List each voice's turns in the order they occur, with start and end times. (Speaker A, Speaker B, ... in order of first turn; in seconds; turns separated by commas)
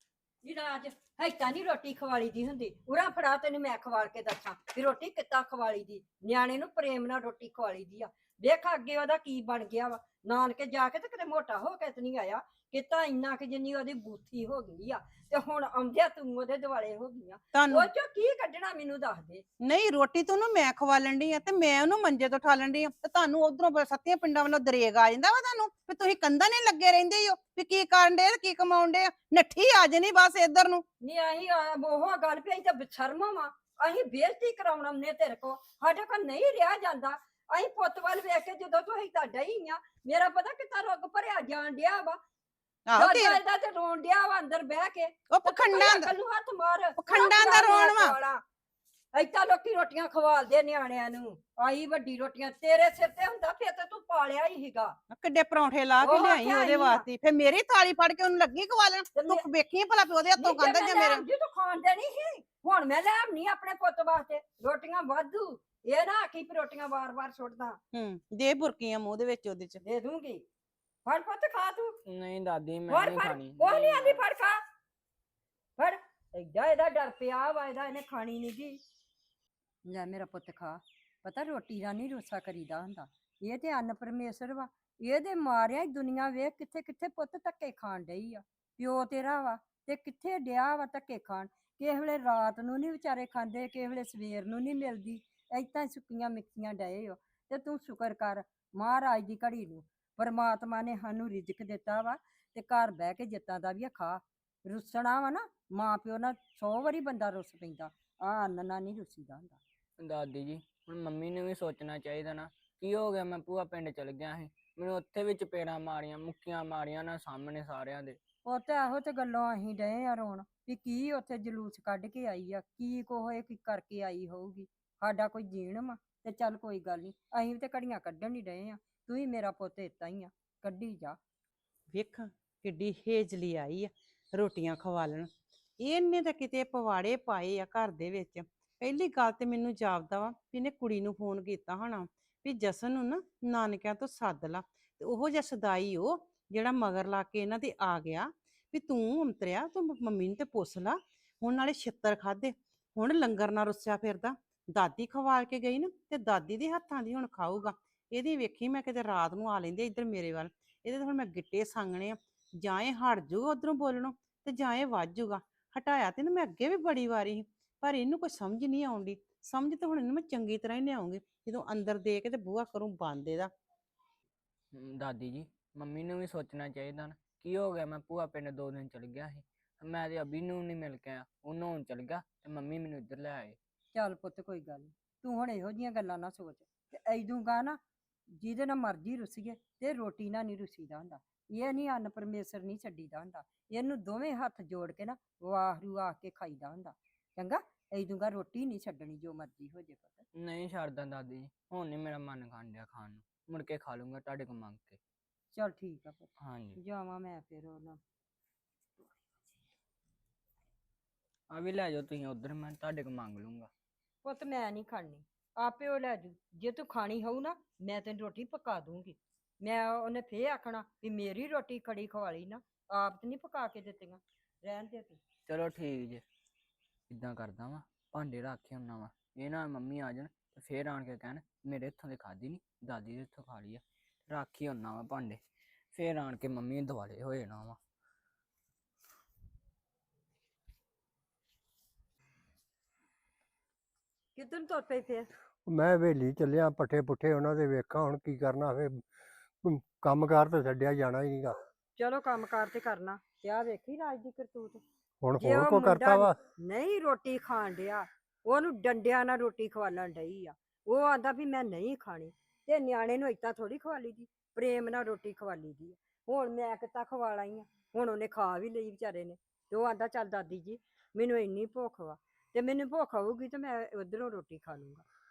Speaker A: 0.4-19.4, Speaker B: 17.5-17.9, Speaker B: 19.6-30.8, Speaker A: 31.0-42.2, Speaker B: 42.9-43.4, Speaker A: 42.9-48.4, Speaker B: 45.3-46.1, Speaker B: 47.0-48.1, Speaker A: 49.1-54.9, Speaker B: 55.1-61.2, Speaker A: 56.0-57.0, Speaker A: 59.1-59.4, Speaker A: 60.4-67.8, Speaker B: 67.9-69.8, Speaker A: 69.8-70.4, Speaker A: 71.0-71.9, Speaker C: 72.1-74.2, Speaker A: 72.9-74.6, Speaker A: 75.8-78.8, Speaker A: 79.8-109.6, Speaker C: 110.0-118.2, Speaker A: 118.4-131.2, Speaker B: 131.9-173.5, Speaker C: 174.7-183.6, Speaker A: 183.9-187.8, Speaker A: 188.4-200.2, Speaker C: 200.3-205.0, Speaker A: 205.5-208.0, Speaker C: 206.4-206.8, Speaker C: 211.5-213.7, Speaker A: 214.2-225.2, Speaker C: 225.5-226.2, Speaker C: 227.1-235.4, Speaker C: 235.9-237.8, Speaker A: 244.3-245.3, Speaker D: 245.7-249.0, Speaker D: 249.6-251.6, Speaker A: 251.9-254.8, Speaker D: 255.2-256.3, Speaker A: 255.4-275.0